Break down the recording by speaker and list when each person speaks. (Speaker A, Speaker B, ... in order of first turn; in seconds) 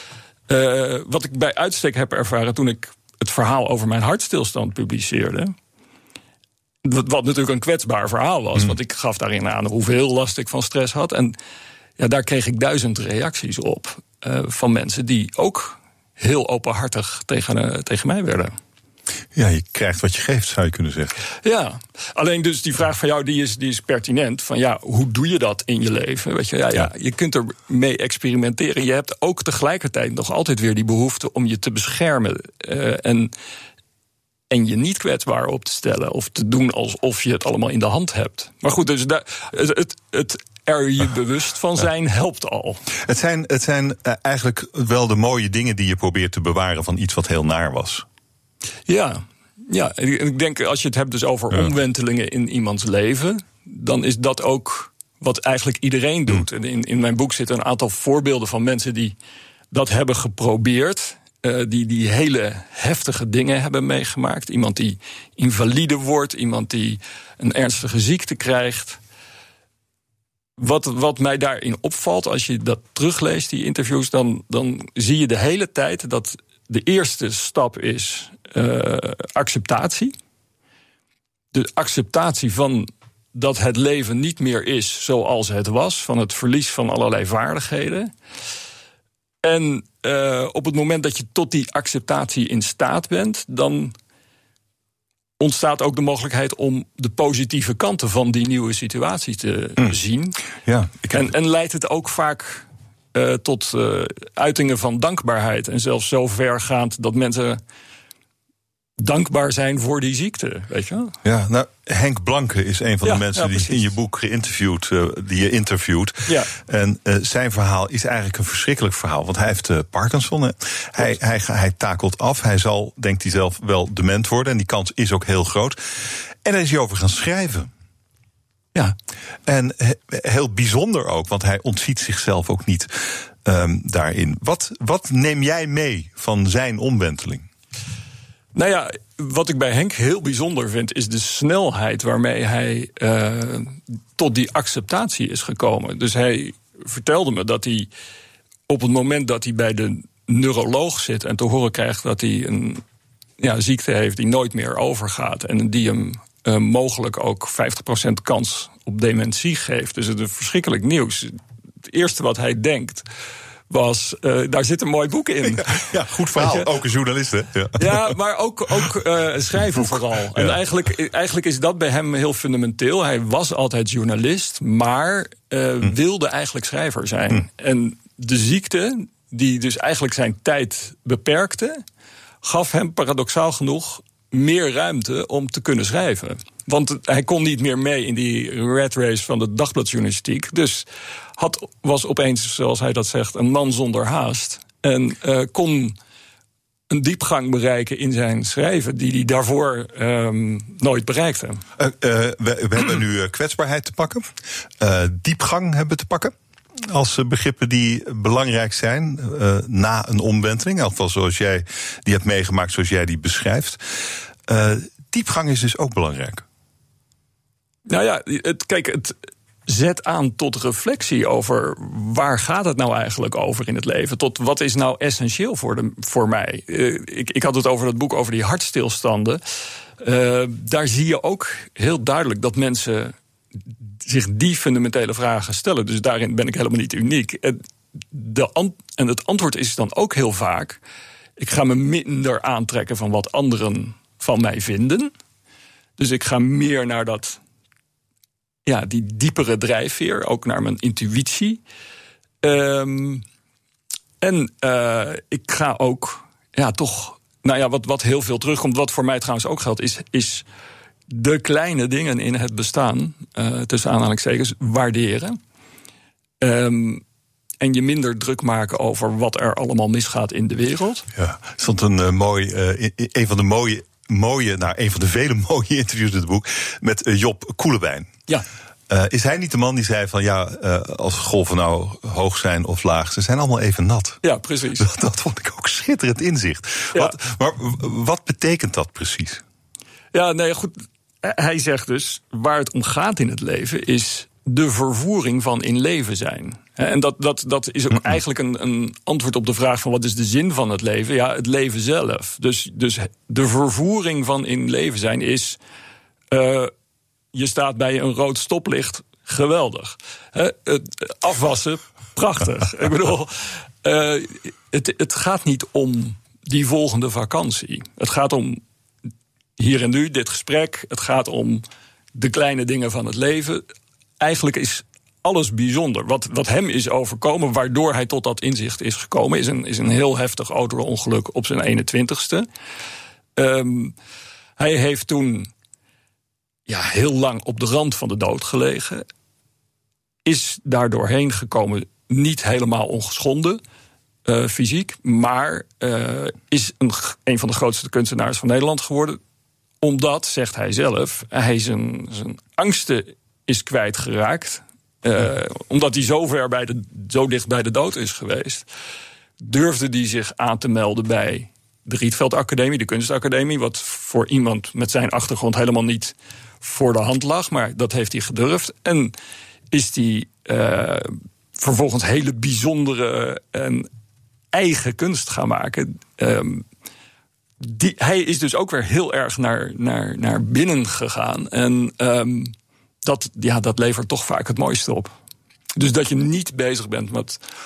Speaker A: 0.5-5.5, 6.8-11.3, 12.0-18.6, 21.4-33.3, 34.5-42.8, 48.9-59.1, 59.7-69.0, 70.6-80.1, 81.5-88.1, 89.4-93.9, 95.4-100.4, 101.0-107.6, 109.0-111.1, 113.0-113.9, 116.3-116.5, 138.5-147.9, 148.7-152.8, 153.4-163.0, 163.7-166.7, 167.8-181.8, 182.4-190.8, 191.4-196.0, 196.9-201.6, 217.9-229.4, 230.0-233.1, 234.0-237.6, 238.1-240.8, 241.4-245.1, 246.0-247.4, 248.7-251.6, 252.4-253.2, 254.2-260.4, 261.1-265.4, 266.4-267.0, 267.6-271.1, 284.2-284.9, 290.1-305.6, 306.3-306.7, 307.3-318.6, 319.6-321.6, 322.1-323.6, 324.2-332.4, 333.4-333.9, 334.6-335.5, 336.7-339.0, 340.2-343.6, 344.2-349.2, 349.8-358.6, 359.4-369.1, 369.7-373.9, 374.5-376.6, 377.6-382.5, 383.0-385.1, 385.8-387.4
Speaker B: 19.3-21.1, 43.0-48.0, 100.6-101.2, 111.2-127.7, 129.4-137.5, 165.6-168.1, 169.7-170.6, 201.8-213.8, 214.5-216.4, 271.1-278.1, 278.9-284.2, 284.8-289.4